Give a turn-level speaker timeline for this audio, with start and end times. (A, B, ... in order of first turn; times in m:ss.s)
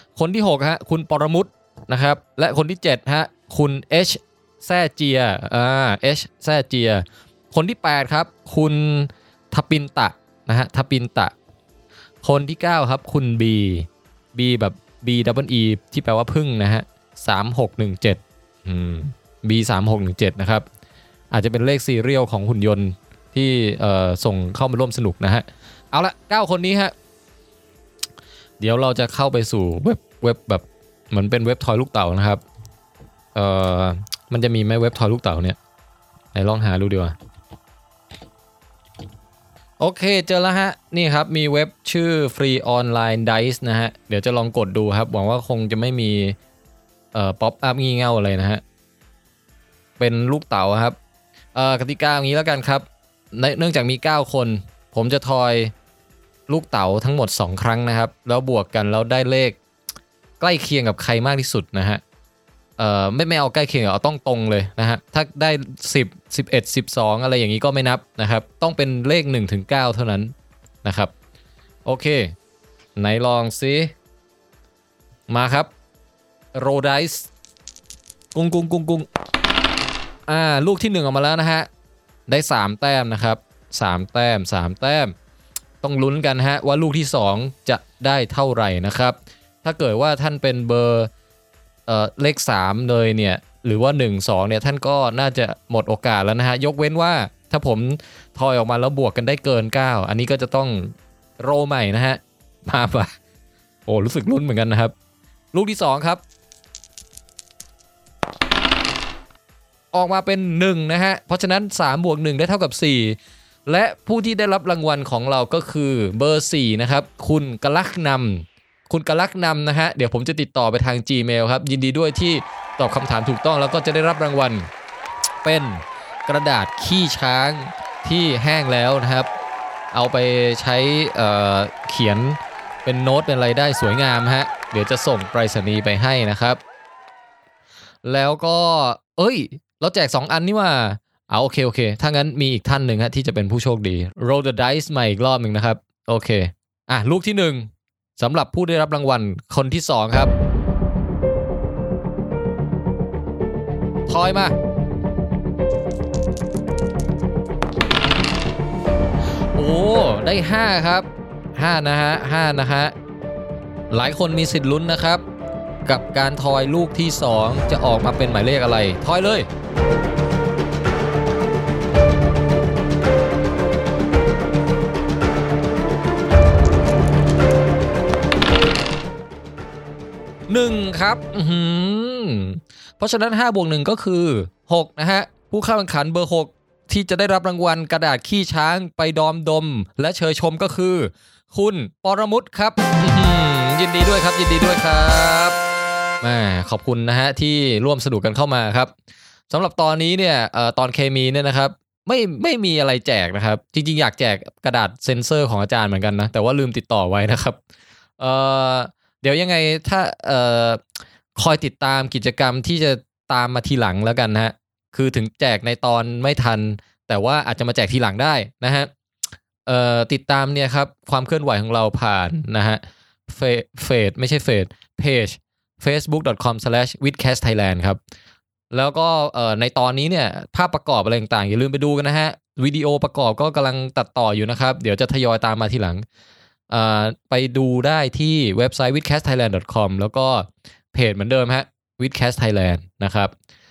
0:00.2-0:11.3 A
0:12.2-0:20.6 A
0:21.3-0:26.9 A
0:28.6-0:32.4 A
0:33.3-0:35.6 A
0:36.3-0:37.1 A
0:39.8-0:46.4 A
0:47.1-0:48.6 A
0:50.0-0:51.0 A
0:51.5-0:55.7 A
0:56.5-0:59.6 A
1:00.4-1:02.0 A
1:02.8-1:10.3 A
1:10.8-1:11.1 A
1:11.8-1:12.3 A
1:13.0-1:13.9 A
1:15.3-1:15.7 A
1:16.6-1:17.3 A
1:18.3-1:19.1 A
1:20.3-1:21.7 A
1:22.3-1:25.1 A
1:25.8-1:31.1 A
1:31.9-1:43.1 A
1:43.9-1:44.9 A
1:45.5-1:46.2 A
1:49.9-2:04.7 A
2:05.4-2:09.3 A
2:09.9-2:16.6 A
2:18.0-2:30.3 A
2:34.1-2:34.6 A
2:39.6-2:42.9 A
2:43.9-2:45.2 A
2:45.8-2:49.5 A
3:00.5-3:15.6 A
3:16.2-3:18.9 A
3:19.5-3:27.6 A
3:28.2-3:30.8 A
3:31.4-3:38.9 A
3:39.6-3:48.0 A
3:48.7-3:56.0 A
3:56.7-4:03.3 A